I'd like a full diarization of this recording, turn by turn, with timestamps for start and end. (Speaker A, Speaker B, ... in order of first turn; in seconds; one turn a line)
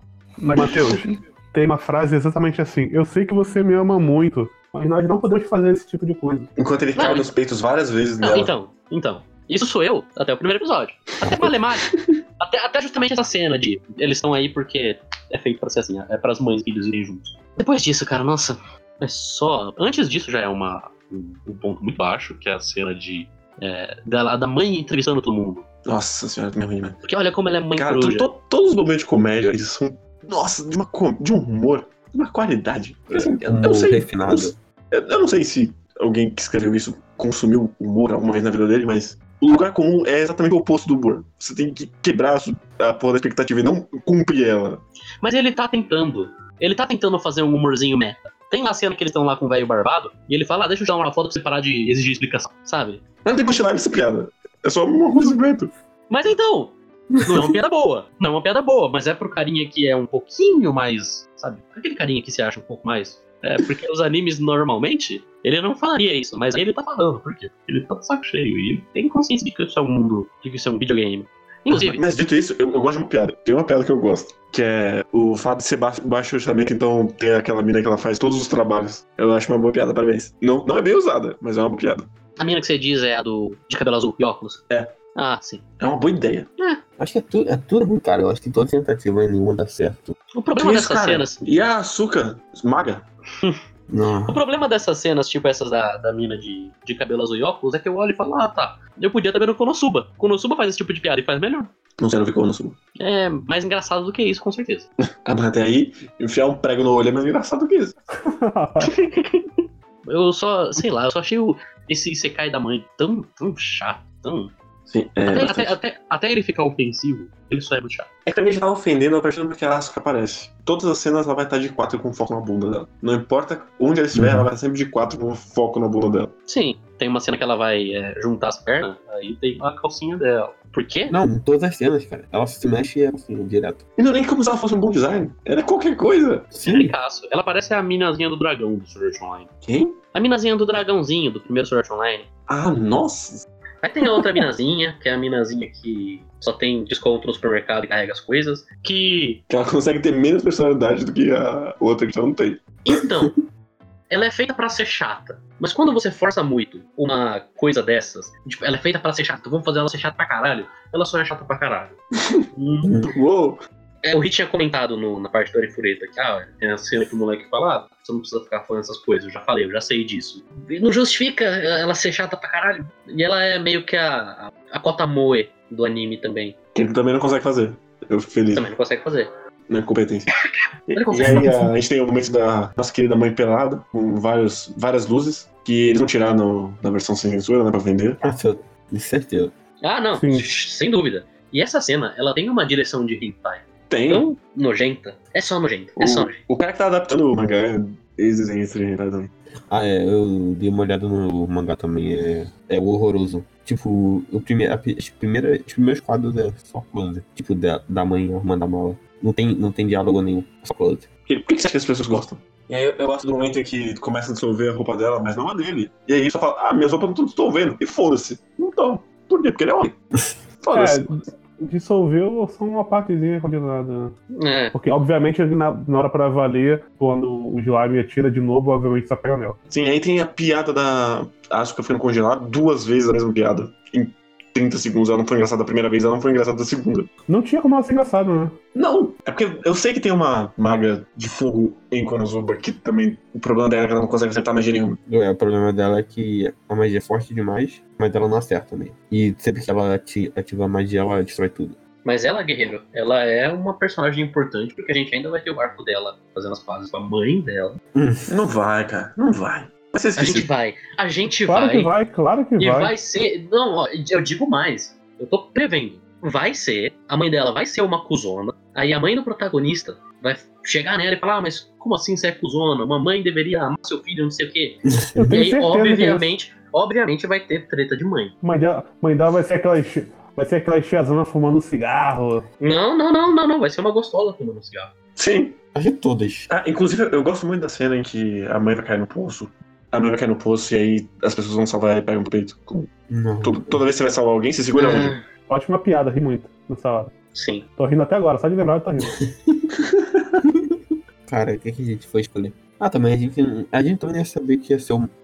Speaker A: 0.4-6.5
Speaker B: 0.6-1.1
Speaker B: 6.6-8.5
Speaker C: 7.0-7.3
Speaker C: 8.2-25.6
Speaker B: 25.9-27.0
Speaker C: 27.0-28.3
Speaker B: 27.8-44.8
Speaker D: 33.1-34.5
Speaker C: 45.2-53.0
Speaker B: 53.2-55.7
Speaker C: 56.1-72.0
Speaker B: 71.7-82.1
Speaker C: 82.4-84.6
Speaker B: 84.7-85.0
Speaker C: 85.1-85.6
Speaker B: 85.8-86.5
Speaker D: 87.0-90.2
Speaker C: 90.3-91.4
Speaker B: 90.6-93.0
Speaker D: 93.9-94.4
Speaker C: 94.3-101.7
Speaker B: 102.0-102.8
Speaker C: 103.0-104.9
Speaker B: 105.2-108.0
Speaker A: 108.2-108.9
Speaker C: 108.8-114.5
Speaker B: 114.9-115.8
Speaker C: 115.3-118.1
Speaker B: 118.2-126.3
Speaker D: 124.1-124.5
Speaker C: 126.5-131.2
Speaker D: 131.1-133.8
Speaker B: 134.0-136.5
Speaker D: 136.5-136.9
Speaker C: 136.6-139.5
Speaker B: 139.6-140.0
Speaker C: 140.1-142.3
Speaker B: 142.5-143.4
Speaker C: 143.8-149.4
Speaker B: 149.5-152.7
Speaker C: 152.8-153.3
Speaker C: 154.1-162.0
Speaker C: 162.5-162.9
Speaker B: 163.1-163.6
Speaker C: 164.0-176.5
Speaker B: 176.7-178.7
Speaker C: 178.5-179.3
Speaker B: 179.7-180.3
Speaker C: 180.4-181.5
Speaker B: 180.9-188.2
Speaker A: 181.4-181.6
Speaker D: 188.2-189.5
Speaker C: 189.8-196.4
Speaker A: 190.2-190.5
Speaker B: 193.9-194.3
Speaker B: 196.0-199.3
Speaker D: 199.7-211.1
Speaker B: 211.3-220.0
Speaker B: 220.6-221.1
Speaker A: 220.7-224.1
Speaker C: 224.3-224.7
Speaker A: 224.7-229.6
Speaker B: 229.7-237.1
Speaker A: 237.3-238.5
Speaker B: 238.7-245.0
Speaker D: 245.1-251.8
Speaker C: 252.0-257.8
Speaker D: 257.9-258.3
Speaker B: 258.3-260.5
Speaker C: 260.2-261.9
Speaker A: 261.4-262.9
Speaker C: 262.6-278.3
Speaker D: 274.9-275.3
Speaker A: 275.1-276.3
Speaker A: 278.4-282.4
Speaker C: 282.6-284.9
Speaker B: 285.1-285.6
Speaker D: 285.7-286.5
Speaker B: 286.5-295.1
Speaker D: 293.1-293.8
Speaker C: 294.8-295.2
Speaker A: 295.5-297.1
Speaker C: 297.3-297.6
Speaker A: 297.8-299.1
Speaker D: 301.3-305.1